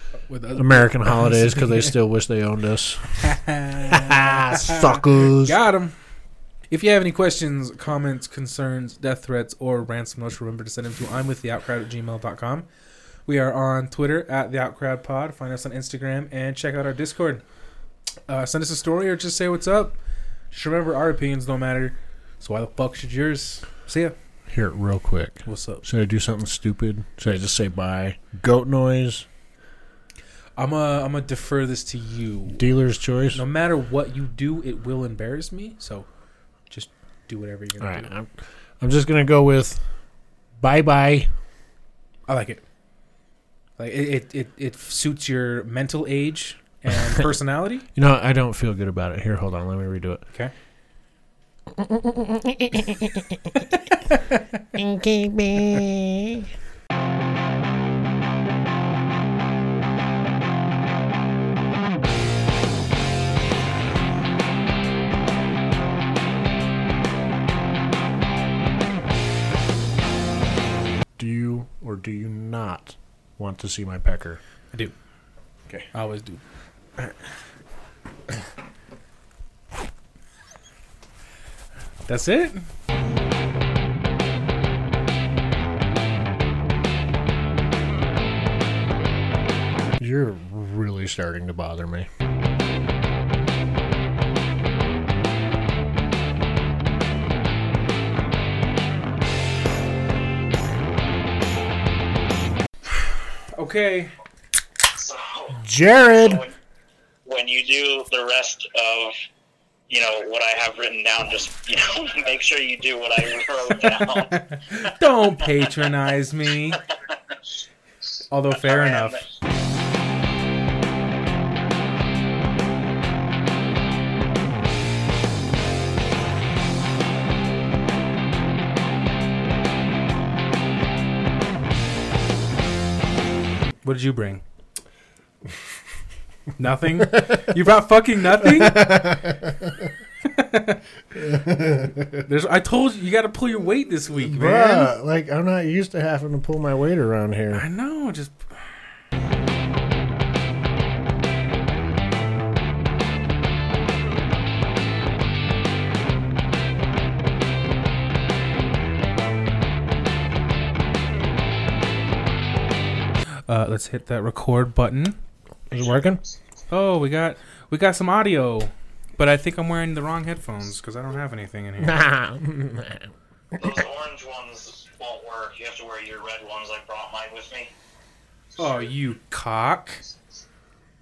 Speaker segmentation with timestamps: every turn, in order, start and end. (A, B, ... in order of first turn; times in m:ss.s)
0:00.3-0:01.9 A
0:00.6-0:03.3 B
0:03.2-0:05.9 A
0:03.9-0:05.6 B
0:06.7-0:12.7 A
0:13.3-0:17.4 A
0:18.3-0:20.0 A
0:20.5-0:24.1 A
0:24.5-0:29.3 B
0:25.4-0:25.8 A
0:30.6-0:32.7 A
0:32.5-0:33.4 B
0:33.3-0:36.1 A
0:36.7-0:38.1 A
0:37.8-0:39.8 B
0:40.6-0:41.3 B
0:42.3-0:42.6 A
0:43.8-0:47.9 A
0:48.0-0:50.2 B
0:51.7-0:53.7 B
0:54.0-0:54.4 A
0:54.7-0:56.5 B
1:11.2-1:14.4 B
1:15.9-1:16.4 A
1:22.1-1:22.6 A
1:30.0-1:32.1 B
1:43.5-1:44.1 A
1:44.9-1:45.6 C
1:45.6-1:46.4 B
1:46.1-1:46.5 C
1:47.2-1:49.2 C
1:49.9-1:54.9 C
1:53.9-1:56.8 A
1:58.3-1:59.2 A
1:58.6-1:59.2 C
2:13.8-2:14.4 A
2:16.6-2:19.3 A
2:17.0-2:17.4 B
2:18.4-2:19.9 B
2:20.2-2:20.8 A
2:21.1-2:22.3 B
2:22.2-2:24.9 A
2:24.2-2:27.6 B
2:27.5-2:28.6 A
2:43.5-2:45.2 A
2:45.7-2:46.2 B
2:46.7-2:52.0 A
2:51.8-2:53.7 B
2:53.6-2:57.7 C
2:58.6-3:00.0 A